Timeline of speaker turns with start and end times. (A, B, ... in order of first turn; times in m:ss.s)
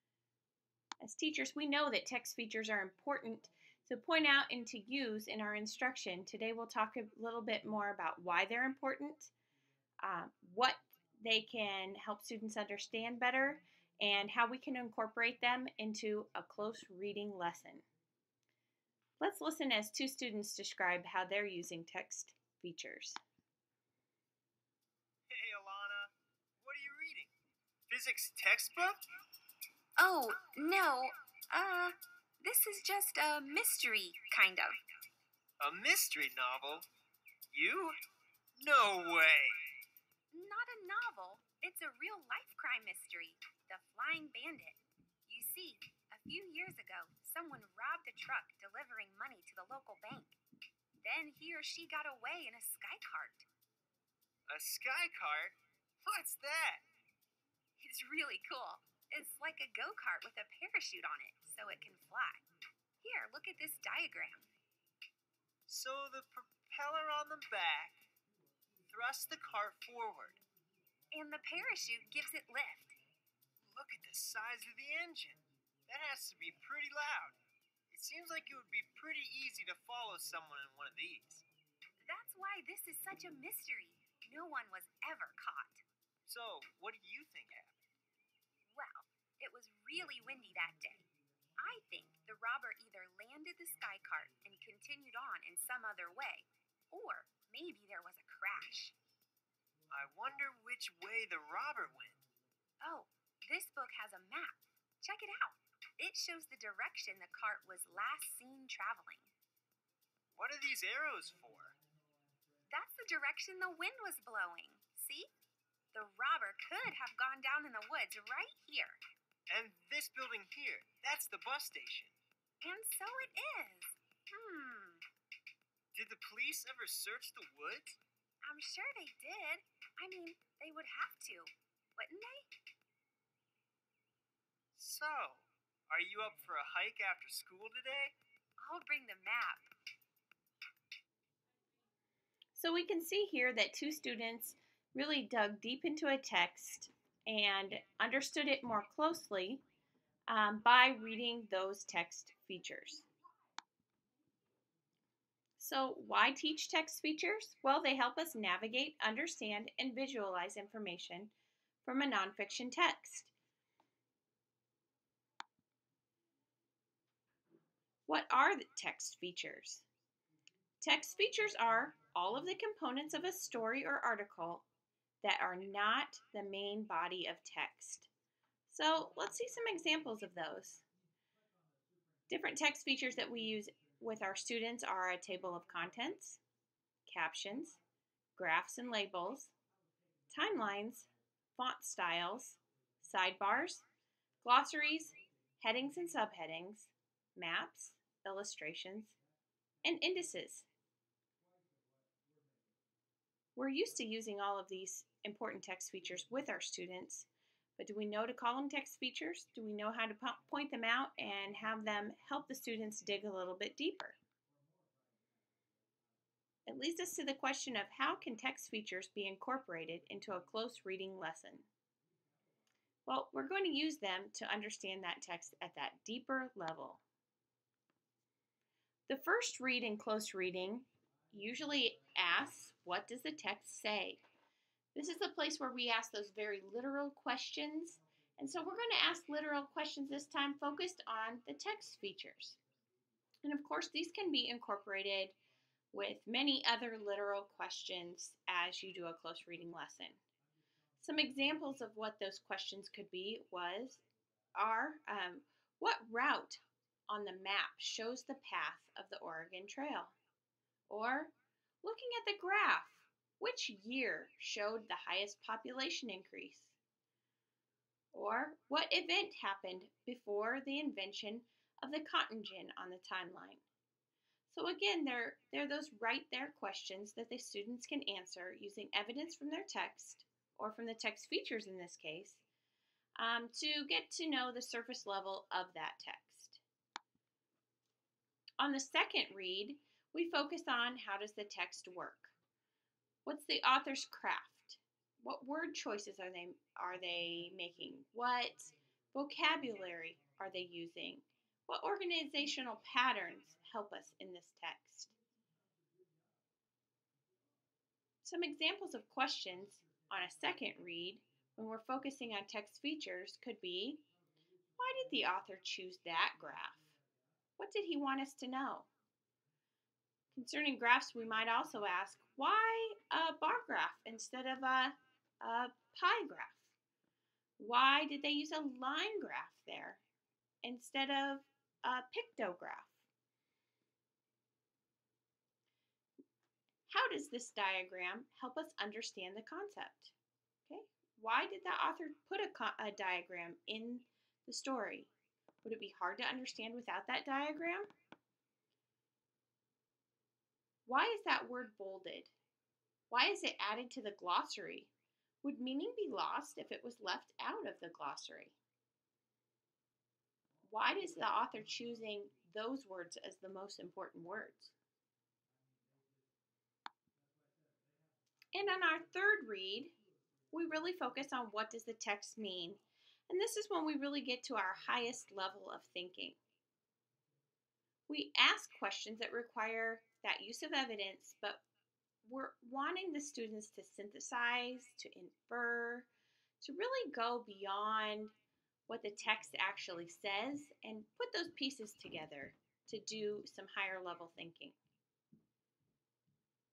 0:01.0-0:09.3 A
0:10.0-0:17.8 A
0:19.2-0:23.2 A
0:25.3-0:27.3 B
0:27.9-0:29.0 B
0:30.0-0:34.8 C
0:35.6-0:36.9 B
0:37.5-0:38.0 B
0:38.6-0:39.6 B
0:40.3-0:50.4 C
0:51.0-0:53.5 C
0:54.5-0:56.8 B
0:57.8-1:02.4 C
1:03.0-1:04.5 C
1:05.7-1:08.0 B
1:08.9-1:10.4 B
1:11.1-1:13.0 C
1:13.7-1:17.4 B
1:17.9-1:21.4 B
1:22.0-1:25.8 C
1:26.3-1:27.8 B
1:28.7-1:31.1 C
1:31.6-1:39.0 C
1:39.9-1:42.2 B
1:42.8-1:49.3 C
1:50.4-1:51.8 B
1:52.7-1:55.3 C
1:55.9-1:59.0 C
1:59.5-2:02.2 B
2:02.6-2:05.0 C
2:05.9-2:08.0 B
2:08.4-2:12.5 C
2:14.8-2:18.2 B
2:18.6-2:19.7 C
2:22.6-2:29.6 A
2:30.3-2:33.1 A
2:35.6-2:41.3 A
2:41.8-2:43.3 A
2:48.1-2:49.9 A
2:50.8-2:54.7 A
2:55.2-2:58.1 A
2:58.7-3:00.8 A
3:02.3-3:06.4 A
3:07.1-3:07.8 A
3:08.4-3:09.5 A
3:10.3-3:13.9 A
3:14.4-3:19.2 A
3:19.8-3:20.7 A
3:23.6-3:34.2 A
3:36.7-3:41.7 A
3:43.1-3:47.0 A
3:49.1-3:54.2 A
3:55.0-4:02.6 A
4:03.4-4:05.4 A
4:05.9-4:10.2 A
4:11.0-4:14.0 A
4:14.6-4:20.2 A
4:20.9-4:26.8 A
4:28.1-4:33.6 A
4:34.5-4:42.4 A
4:43.2-4:46.6 A
4:48.6-4:52.3 A
4:53.2-5:05.1 A
5:08.2-5:14.0 A
5:14.8-5:16.9 A
5:17.6-5:18.9 A
5:20.3-5:26.7 A
5:27.6-5:30.0 A
5:30.6-5:33.0 A
5:36.9-5:40.1 A
5:40.7-5:45.1 A
5:45.6-5:47.9 A
5:50.9-5:52.3 A
5:53.1-5:54.9 A
5:55.4-5:58.6 A
6:00.6-6:04.7 A
6:08.5-6:09.9 A
6:10.5-6:16.4 A
6:18.1-6:21.6 A
6:22.2-6:26.1 A
6:26.6-6:28.3 A
6:28.9-6:34.8 A